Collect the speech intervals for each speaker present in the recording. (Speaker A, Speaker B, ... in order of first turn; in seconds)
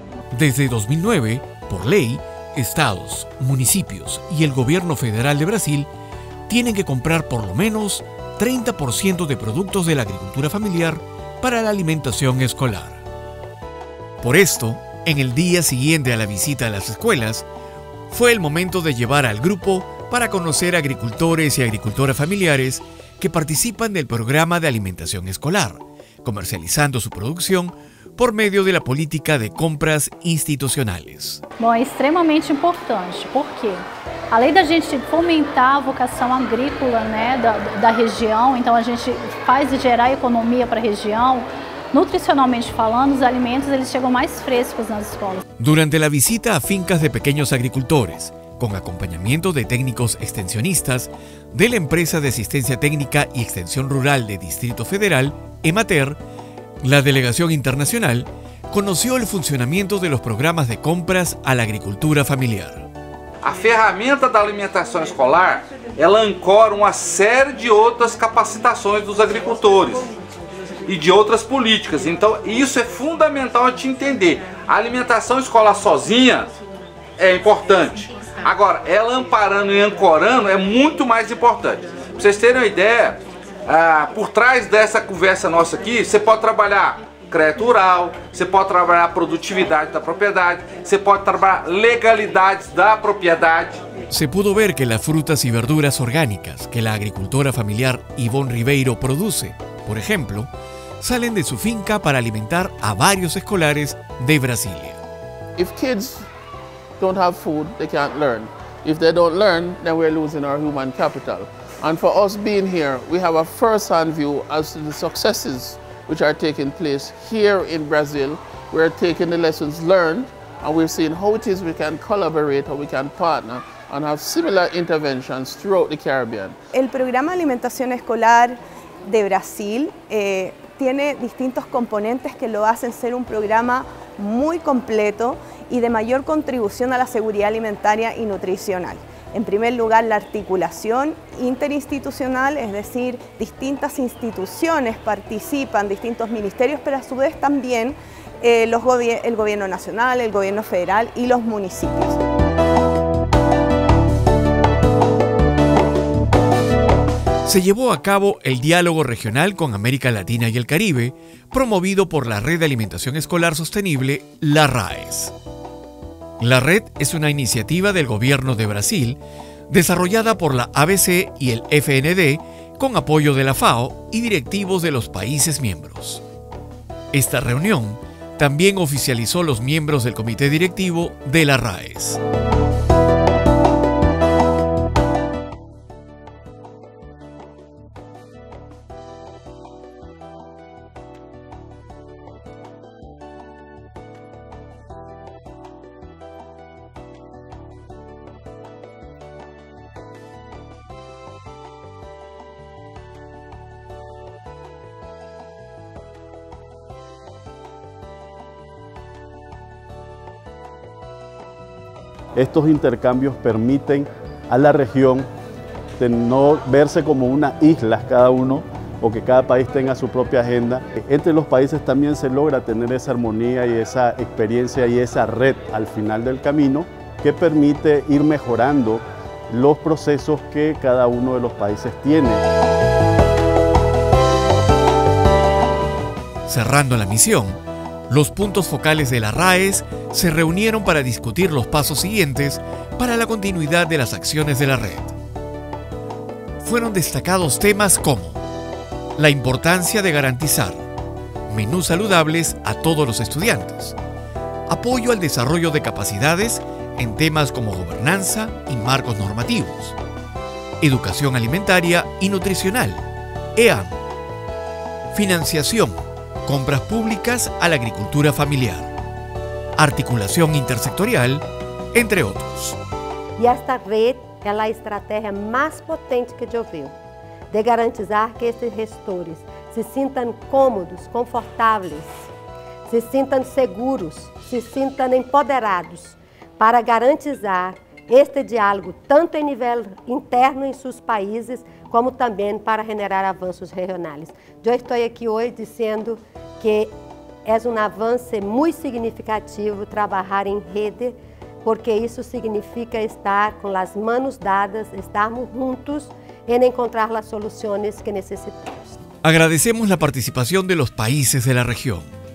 Speaker A: 0.3-5.9, 6.5-13.0, 14.2-17.5, 18.1-31.4, 45.6-56.2, 56.8-62.9, 94.1-100.5, 101.0-105.0, 157.4-165.3, 166.4-176.2, 177.1-182.2, 236.5-245.2, 246.6-248.4, 249.2-250.8, 251.5-254.0, 254.7-260.0, 260.8-264.0, 265.1-268.9, 269.8-272.8, 309.2-312.1
Speaker B: 31.6-45.4
Speaker C: 63.4-70.1, 70.9-76.5, 77.2-93.8
Speaker D: 105.6-106.3, 107.0-126.6
Speaker E: 126.7-152.2
Speaker F: 212.4-215.3, 216.0-232.4
Speaker G: 273.4-276.9, 277.5-282.3, 282.9-296.9, 297.5-308.9